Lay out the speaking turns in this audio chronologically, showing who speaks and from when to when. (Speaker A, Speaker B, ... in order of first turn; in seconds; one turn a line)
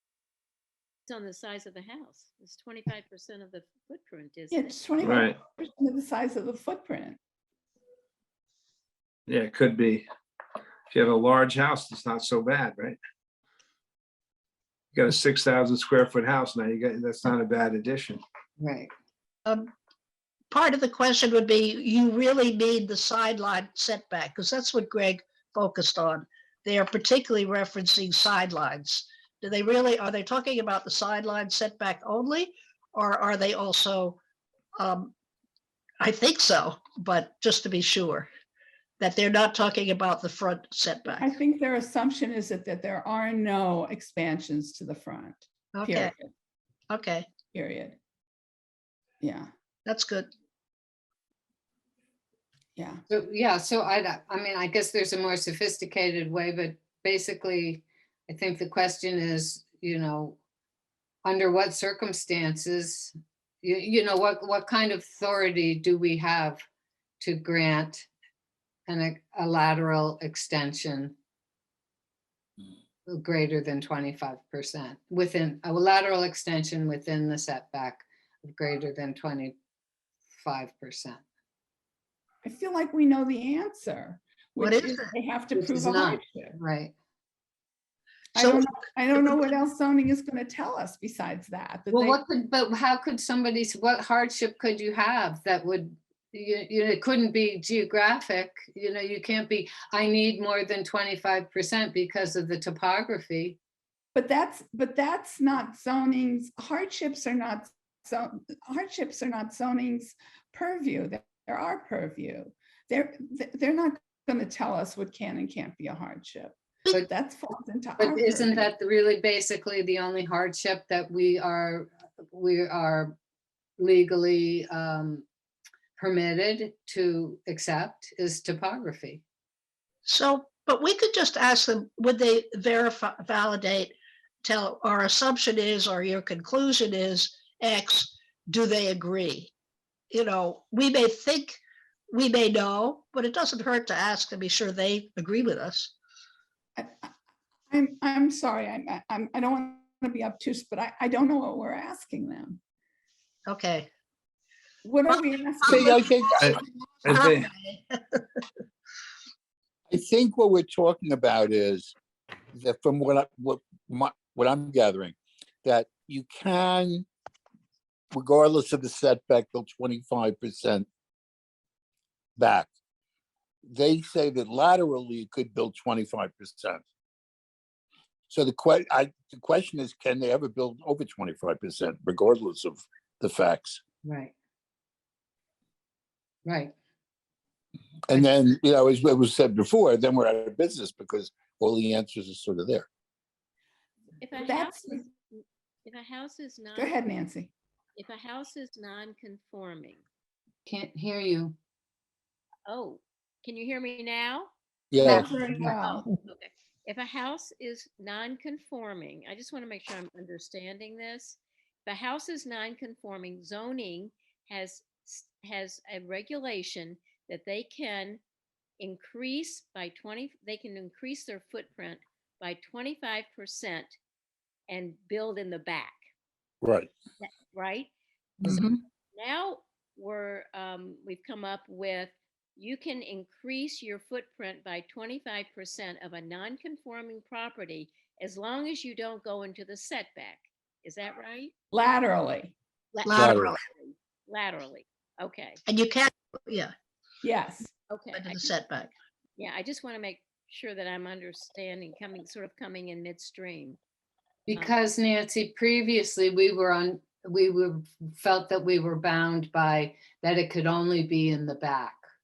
Speaker A: 1.1-4.8
Speaker B: 4.5-7.2
Speaker C: 5.0-5.4
Speaker C: 9.2-10.1
Speaker C: 10.9-13.0
Speaker C: 14.9-18.2
Speaker D: 18.6-18.9
Speaker E: 20.5-34.2
Speaker E: 34.8-35.1
Speaker E: 36.0-38.3
Speaker E: 39.0-41.3
Speaker B: 41.2-46.3
Speaker E: 45.7-46.1
Speaker E: 46.9-47.3
Speaker B: 47.5-48.0
Speaker B: 49.2-49.5
Speaker E: 49.9-50.3
Speaker B: 52.8-53.0
Speaker D: 53.1-60.4
Speaker D: 61.2-63.1
Speaker D: 63.6-66.6
Speaker D: 67.2-68.1
Speaker D: 68.9-71.1
Speaker D: 73.1-79.5
Speaker D: 80.4-81.2
Speaker B: 82.4-86.6
Speaker E: 84.6-85.1
Speaker D: 85.5-86.9
Speaker B: 88.3-92.2
Speaker E: 88.3-89.5
Speaker D: 91.9-103.6
Speaker B: 104.1-118.7
Speaker D: 118.0-123.2
Speaker D: 123.8-125.2
Speaker D: 126.0-129.2
Speaker E: 130.1-139.5
Speaker E: 140.1-141.6
Speaker E: 142.1-145.9
Speaker B: 146.8-147.1
Speaker B: 147.7-152.6
Speaker E: 153.5-153.9
Speaker B: 154.8-155.9
Speaker E: 155.7-158.2
Speaker F: 155.7-156.6
Speaker C: 156.3-157.5
Speaker F: 159.9-161.9
Speaker F: 162.5-167.1
Speaker F: 168.1-170.9
Speaker F: 172.4-172.7
Speaker F: 173.7-176.8
Speaker F: 178.3-183.8
Speaker D: 184.0-184.3
Speaker D: 186.4-186.7
Speaker F: 188.1-192.8
Speaker A: 194.2-197.1
Speaker B: 194.3-195.1
Speaker B: 196.7-197.5
Speaker A: 197.9-200.0
Speaker D: 200.7-201.5
Speaker A: 202.7-218.2
Speaker F: 204.9-205.3
Speaker B: 205.0-206.1
Speaker A: 218.8-223.9
Speaker A: 224.7-226.0
Speaker F: 226.6-226.9
Speaker A: 227.2-227.9
Speaker E: 228.4-228.8
Speaker A: 229.1-241.5
Speaker B: 241.7-242.5
Speaker A: 242.9-245.6
Speaker E: 243.1-243.6
Speaker F: 243.1-243.5
Speaker E: 245.7-246.7
Speaker B: 247.2-247.7
Speaker A: 247.9-248.5
Speaker E: 248.1-248.9
Speaker A: 249.4-253.8
Speaker D: 254.5-262.0